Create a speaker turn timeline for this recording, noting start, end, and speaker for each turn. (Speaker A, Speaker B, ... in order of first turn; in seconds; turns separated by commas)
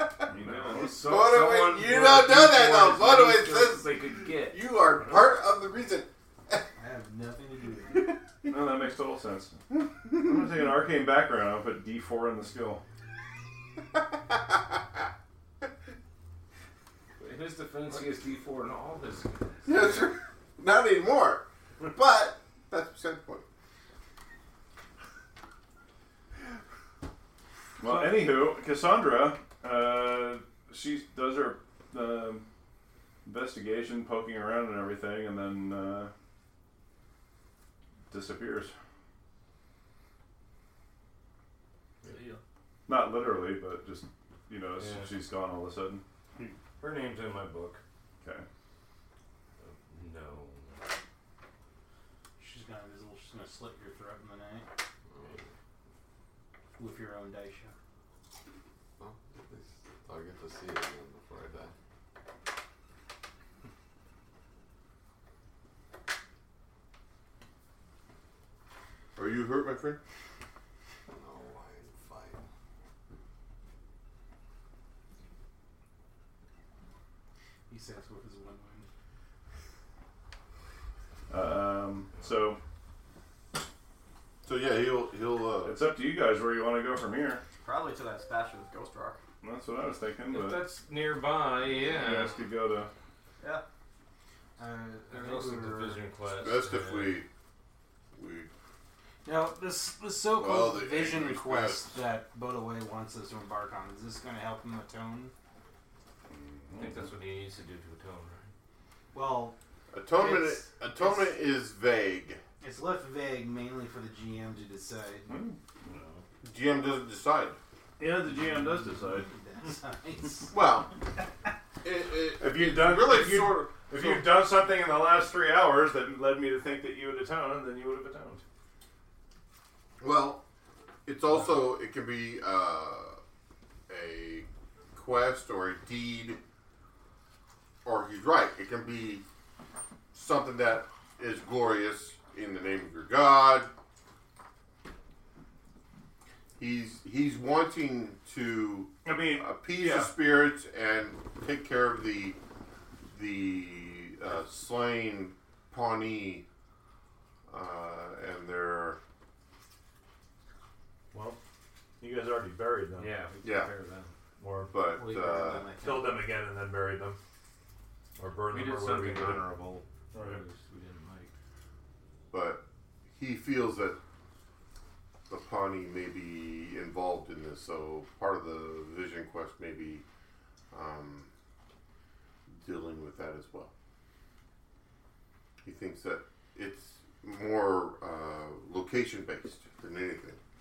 Speaker A: 0.3-1.1, Speaker B: 0.4-4.8, Speaker C: 0.9-6.7, Speaker D: 6.8-8.2, Speaker C: 8.0-8.5, Speaker A: 8.5-9.6, Speaker A: 10.1-12.8, Speaker B: 17.2-20.1, Speaker C: 19.7-23.4, Speaker A: 27.8-32.5, Speaker A: 33.2-36.1, Speaker A: 38.1-38.7, Speaker E: 42.1-42.4, Speaker A: 42.9-46.0, Speaker B: 44.8-45.2, Speaker B: 46.8-47.8, Speaker B: 49.6-50.8, Speaker D: 52.4-54.7, Speaker F: 55.1-55.4, Speaker D: 56.8-57.7, Speaker F: 59.0-61.7, Speaker C: 69.2-70.0, Speaker F: 71.1-72.4, Speaker D: 77.7-78.9, Speaker A: 81.3-82.6, Speaker C: 84.4-85.8, Speaker A: 85.6-87.4, Speaker E: 87.6-89.2, Speaker A: 89.4-90.7, Speaker B: 90.3-92.5, Speaker A: 91.8-92.9, Speaker D: 94.6-96.0, Speaker B: 95.1-97.2, Speaker C: 96.3-97.3, Speaker C: 98.2-98.5, Speaker D: 99.2-105.3, Speaker C: 100.3-102.0, Speaker A: 106.3-107.1, Speaker B: 106.8-108.5, Speaker D: 109.1-109.6, Speaker C: 109.9-112.4, Speaker D: 110.1-111.4, Speaker D: 112.6-115.4, Speaker A: 115.3-115.6, Speaker B: 115.8-116.2, Speaker C: 116.4-117.6, Speaker A: 118.0-119.3, Speaker D: 118.9-120.6, Speaker C: 120.5-121.0, Speaker C: 121.8-124.4, Speaker A: 122.4-128.4, Speaker C: 130.0-130.4, Speaker C: 131.1-133.2, Speaker C: 133.9-136.4, Speaker C: 137.8-139.2, Speaker C: 140.1-143.7, Speaker C: 146.6-152.4, Speaker A: 149.0-150.1, Speaker C: 153.1-156.4, Speaker C: 157.5-159.0, Speaker A: 161.1-161.4, Speaker A: 162.0-163.2, Speaker B: 162.9-164.1, Speaker C: 163.4-163.7, Speaker A: 164.4-164.8, Speaker C: 164.7-165.7, Speaker D: 164.9-166.3, Speaker A: 165.8-167.2, Speaker A: 168.2-170.4, Speaker B: 168.4-171.3, Speaker C: 172.3-172.6, Speaker C: 173.2-174.0, Speaker C: 175.3-180.1, Speaker C: 180.7-181.3, Speaker C: 182.5-183.7, Speaker C: 185.6-190.4